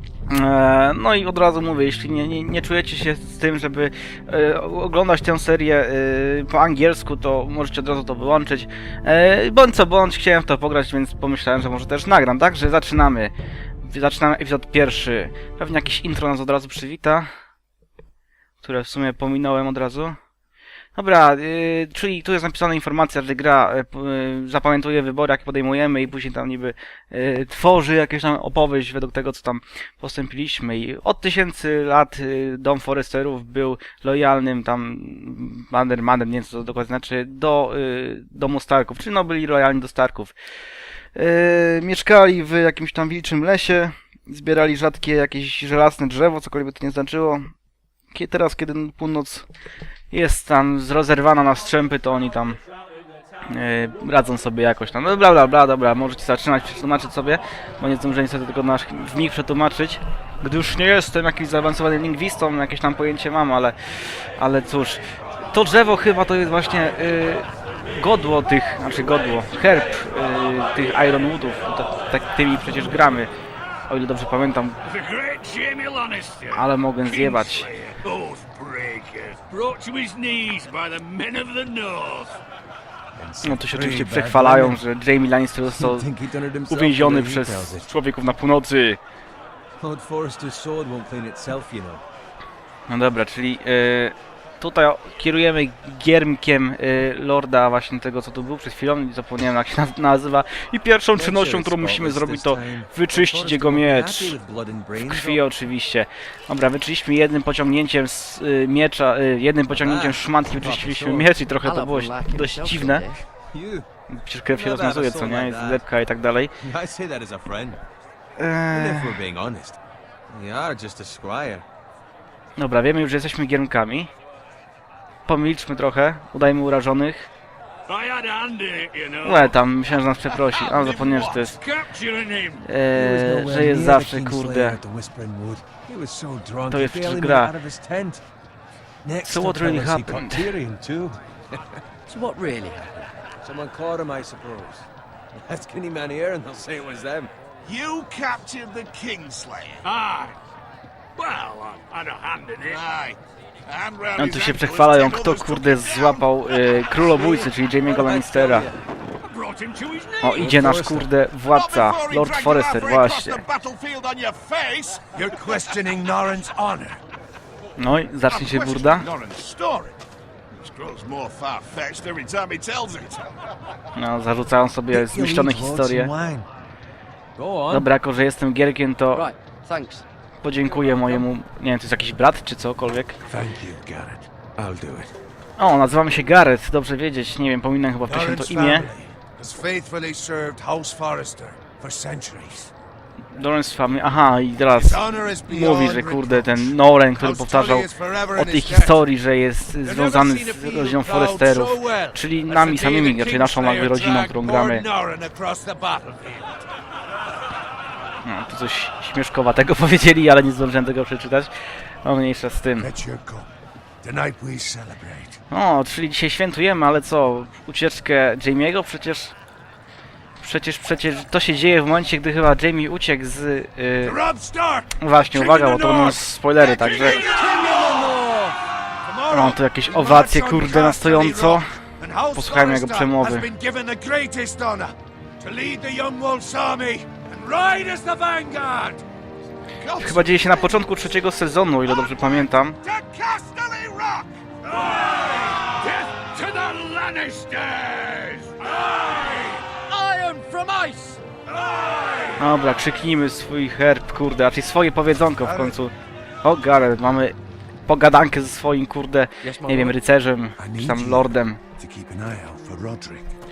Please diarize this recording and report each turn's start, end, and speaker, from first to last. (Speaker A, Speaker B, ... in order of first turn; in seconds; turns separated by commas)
Speaker A: 0.3-17.3, Speaker A: 18.6-20.2, Speaker A: 20.9-40.4, Speaker A: 41.1-47.5, Speaker A: 48.1-49.5, Speaker A: 50.1-52.6, Speaker A: 53.5-73.3, Speaker A: 73.9-74.8, Speaker B: 74.8-82.4, Speaker A: 76.5-77.7, Speaker C: 83.3-84.6, Speaker A: 83.4-86.1, Speaker D: 83.7-84.7, Speaker D: 85.7-87.9, Speaker A: 86.7-89.0, Speaker D: 89.8-92.0, Speaker A: 92.9-104.4, Speaker D: 101.1-105.5, Speaker A: 105.0-113.1, Speaker D: 109.7-111.4, Speaker E: 111.6-113.3, Speaker D: 113.5-113.9, Speaker A: 114.1-116.5, Speaker D: 114.5-115.8, Speaker D: 116.6-117.8, Speaker A: 118.4-119.2, Speaker D: 118.7-119.8, Speaker D: 120.3-121.7, Speaker A: 122.6-124.1, Speaker A: 125.3-127.3, Speaker B: 127.9-129.6, Speaker A: 129.2-131.6, Speaker B: 130.4-132.6, Speaker A: 132.6-134.8, Speaker D: 132.9-138.2, Speaker A: 136.7-137.6, Speaker D: 139.0-141.2, Speaker A: 139.2-140.5, Speaker E: 142.1-143.1, Speaker D: 143.4-147.3, Speaker C: 147.6-149.9, Speaker B: 149.8-150.4, Speaker B: 151.2-152.9, Speaker C: 152.7-156.3, Speaker A: 154.2-158.7, Speaker D: 157.0-158.8, Speaker B: 159.3-160.6, Speaker A: 160.2-163.4, Speaker D: 160.3-161.1, Speaker C: 161.5-167.0, Speaker A: 167.8-169.1, Speaker C: 168.3-170.0, Speaker C: 170.6-173.3, Speaker A: 173.9-176.1, Speaker C: 174.9-176.5, Speaker D: 177.4-177.9, Speaker A: 177.7-179.3, Speaker E: 179.1-180.1, Speaker A: 180.4-183.2, Speaker C: 183.3-185.2, Speaker A: 185.6-188.9, Speaker C: 188.1-192.7, Speaker A: 193.3-204.8, Speaker C: 194.7-199.0, Speaker C: 199.8-206.7, Speaker A: 208.2-211.5, Speaker A: 212.0-212.9, Speaker C: 212.8-213.5, Speaker C: 214.0-215.4, Speaker A: 215.5-219.3, Speaker A: 220.4-224.2, Speaker C: 224.0-228.2, Speaker A: 225.0-227.3, Speaker E: 227.3-228.6, Speaker C: 229.0-239.0, Speaker A: 229.3-231.8, Speaker A: 232.3-233.5, Speaker C: 239.8-240.8, Speaker A: 240.0-242.8, Speaker C: 242.0-244.4, Speaker B: 244.8-249.7, Speaker E: 249.7-251.2, Speaker B: 252.0-252.3, Speaker A: 252.4-261.6, Speaker C: 255.4-255.8, Speaker E: 259.4-260.0, Speaker C: 260.6-263.4